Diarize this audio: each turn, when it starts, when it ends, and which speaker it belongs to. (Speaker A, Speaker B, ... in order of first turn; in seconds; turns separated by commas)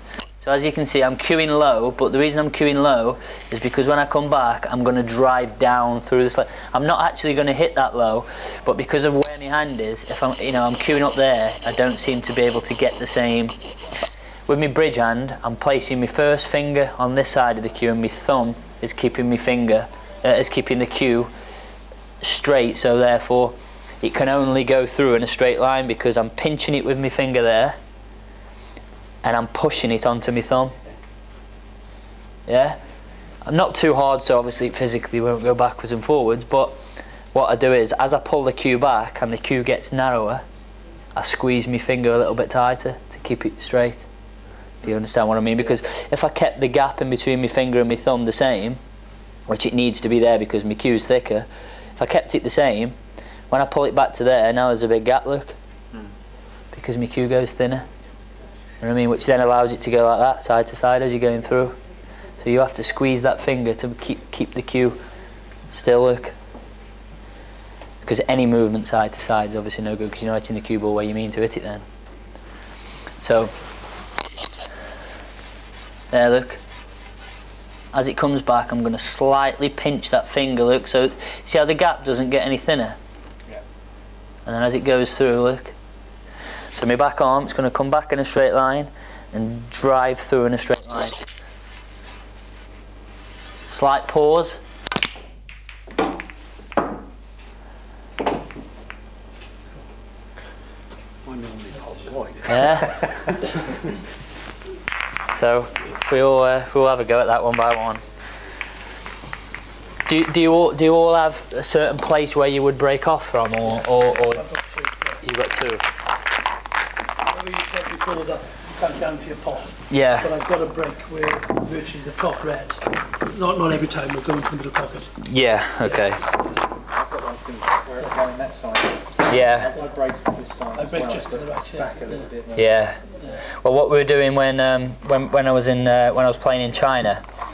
Speaker A: 0.4-13.6, Speaker A: 14.5-21.3, Speaker A: 22.2-27.8, Speaker A: 29.2-30.7, Speaker A: 32.5-32.8, Speaker A: 33.5-36.8, Speaker A: 37.3-40.4, Speaker A: 41.1-44.1, Speaker A: 44.8-48.8, Speaker A: 49.5-52.9, Speaker A: 53.5-55.5, Speaker A: 56.7-57.9, Speaker A: 58.8-61.8, Speaker A: 62.4-65.0, Speaker A: 65.7-66.3, Speaker A: 68.0-71.8, Speaker A: 73.2-73.5, Speaker A: 76.1-76.6, Speaker A: 77.9-83.0, Speaker A: 84.5-85.7, Speaker A: 86.7-91.3, Speaker A: 93.7-94.6, Speaker B: 101.3-103.3, Speaker A: 102.5-102.9, Speaker A: 105.3-108.0, Speaker A: 110.1-114.5, Speaker C: 113.7-115.2, Speaker A: 115.2-115.8, Speaker C: 117.2-125.1, Speaker A: 119.9-120.3, Speaker A: 125.2-126.2, Speaker B: 126.9-132.7, Speaker A: 129.2-129.8, Speaker C: 130.8-132.3, Speaker A: 132.6-133.0, Speaker A: 133.6-137.2